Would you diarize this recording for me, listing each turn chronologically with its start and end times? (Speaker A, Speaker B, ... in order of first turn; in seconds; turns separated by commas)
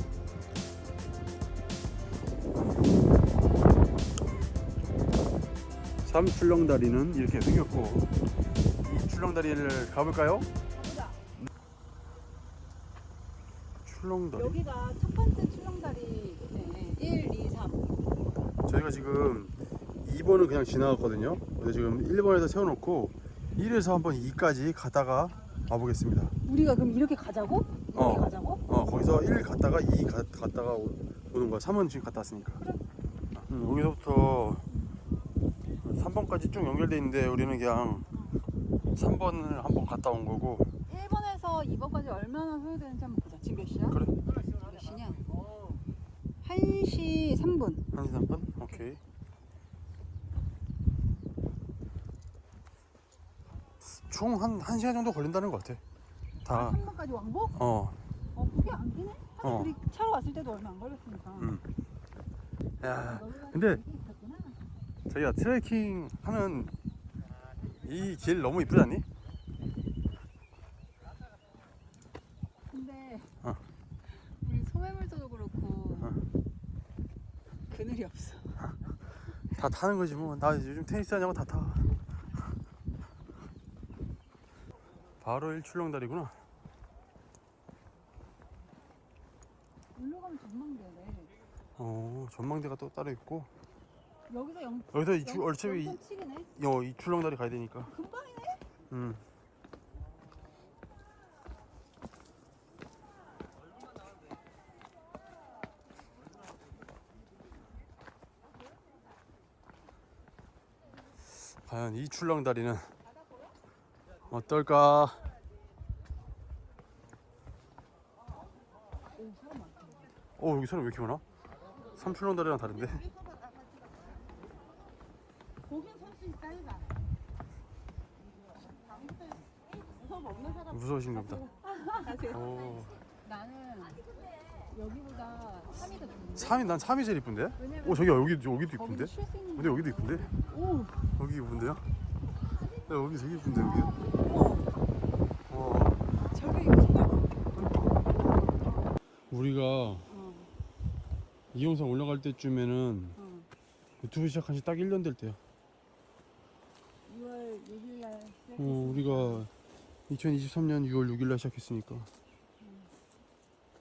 Speaker A: 6.0-8.1, Speaker A: 8.8-10.5, Speaker B: 10.7-11.2, Speaker A: 13.8-14.6, Speaker B: 14.3-17.9, Speaker A: 18.6-26.3, Speaker B: 26.4-28.6, Speaker A: 27.9-32.6, Speaker B: 32.6-32.8, Speaker A: 33.4-34.6, Speaker A: 35.8-38.1, Speaker A: 39.0-40.7, Speaker B: 40.9-44.0, Speaker B: 44.6-45.4, Speaker B: 46.4-47.9, Speaker A: 47.9-49.0, Speaker A: 53.8-55.8, Speaker A: 56.4-56.8, Speaker B: 56.5-57.5, Speaker A: 57.5-58.0, Speaker B: 58.3-61.5, Speaker A: 59.4-59.7, Speaker A: 61.4-61.6, Speaker A: 62.8-63.8, Speaker B: 63.0-64.6, Speaker A: 65.1-66.7, Speaker A: 67.8-69.0, Speaker B: 72.7-73.3, Speaker B: 74.2-76.1, Speaker B: 77.7-78.6, Speaker A: 79.5-82.0, Speaker A: 85.2-86.3, Speaker B: 89.9-91.3, Speaker A: 91.8-93.5, Speaker B: 94.3-96.5, Speaker A: 94.9-96.0, Speaker A: 96.5-97.9, Speaker B: 97.9-98.6, Speaker A: 98.9-99.2, Speaker A: 111.4-112.9, Speaker A: 114.3-115.2, Speaker B: 119.2-120.0, Speaker A: 120.4-121.2, Speaker A: 122.0-123.1, Speaker B: 125.7-126.9, Speaker B: 130.2-130.6, Speaker A: 130.7-131.4, Speaker B: 131.4-136.7, Speaker A: 132.3-133.0, Speaker A: 136.3-140.3, Speaker B: 137.6-141.1, Speaker A: 141.2-141.8, Speaker A: 142.8-144.0, Speaker B: 144.2-144.7, Speaker A: 145.5-146.0, Speaker B: 146.3-147.4, Speaker A: 149.3-150.1, Speaker B: 150.1-150.5, Speaker A: 151.5-153.2, Speaker B: 153.2-153.5, Speaker A: 154.0-155.4, Speaker B: 157.1-159.4, Speaker A: 158.6-159.5, Speaker A: 160.1-162.1, Speaker B: 162.6-162.9